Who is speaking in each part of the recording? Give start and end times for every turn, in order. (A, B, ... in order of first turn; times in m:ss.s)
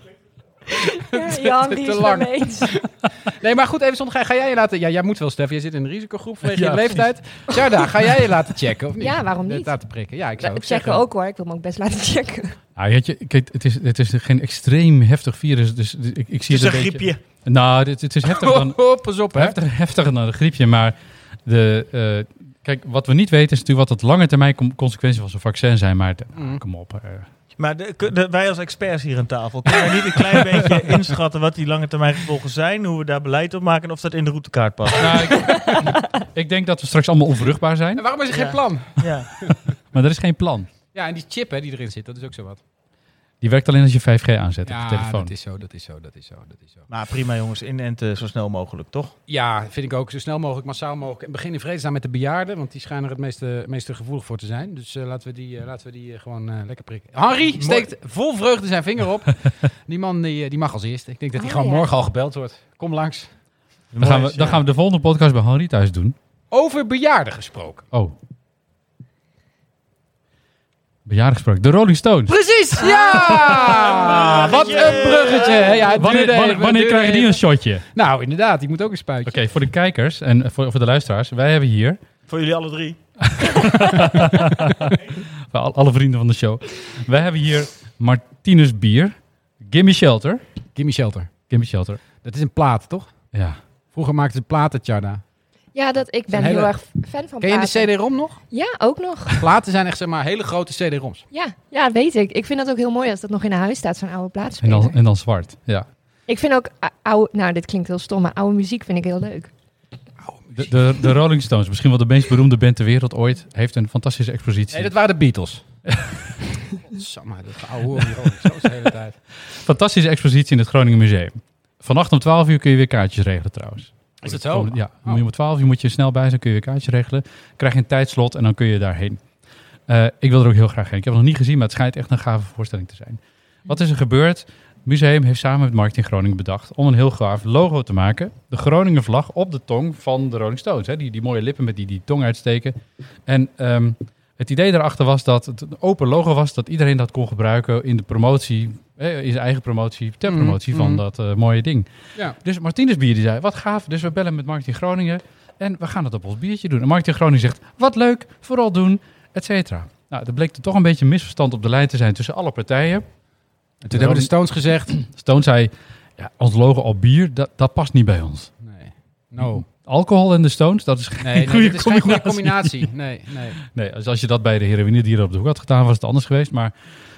0:00.7-0:02.7 A
0:01.1-0:11.0 B
0:06.4-0:07.1 C
0:09.0-0:09.8 A
0:10.4-0:12.6 A
0:12.8-0:27.3 C
0:16.5-0:17.2 D
0:18.2-0:19.6 B
0:26.4-0:26.6 B
0:27.6-0:35.5 D
0:35.0-0:38.0 C
0:38.0-0:39.7 B
0:38.3-0:39.3 D
0:39.9-0:40.7 C
0:40.9-0:42.6 B
0:43.4-0:45.3 C
0:44.6-0:46.9 B
0:46.9-0:49.1 D
0:49.3-1:03.3 B
0:57.6-0:57.9 D
1:01.4-1:01.9 A
1:03.9-1:04.6 D
1:04.0-1:06.2 C
1:06.5-1:07.8 B
1:11.1-1:12.4 C
1:12.3-1:17.4 B
1:13.9-1:15.8 D
1:15.9-1:17.8 C
1:18.0-1:19.4 B
1:19.3-1:22.0 C
1:22.3-1:23.0 D
1:23.2-1:25.0 C
1:25.5-1:30.4 C
1:30.8-1:31.3 B
1:31.5-1:32.0 C
1:32.2-1:33.1 B
1:33.3-1:33.6 C
1:33.9-1:35.2 B
1:35.7-1:38.0 A
1:36.3-1:36.8 B
1:37.4-1:38.4 B
1:38.5-1:39.4 A
1:39.3-1:41.2 B
1:41.3-1:45.0 A
1:44.6-1:45.9 C
1:46.3-1:49.5 A
1:50.2-1:50.8 B
1:50.6-1:54.9 C
1:54.7-1:55.6 B
1:55.9-1:56.2 C
1:56.8-1:59.2 B
1:59.5-2:09.2 C
2:04.2-2:05.2 B
2:09.9-2:43.1 C
2:30.3-2:31.0 B
2:43.8-2:45.0 B
2:43.9-2:44.3 C
2:44.9-2:48.5 C
2:48.6-2:49.6 B
2:49.4-2:52.8 C
2:51.2-2:53.6 B
2:53.6-2:56.7 C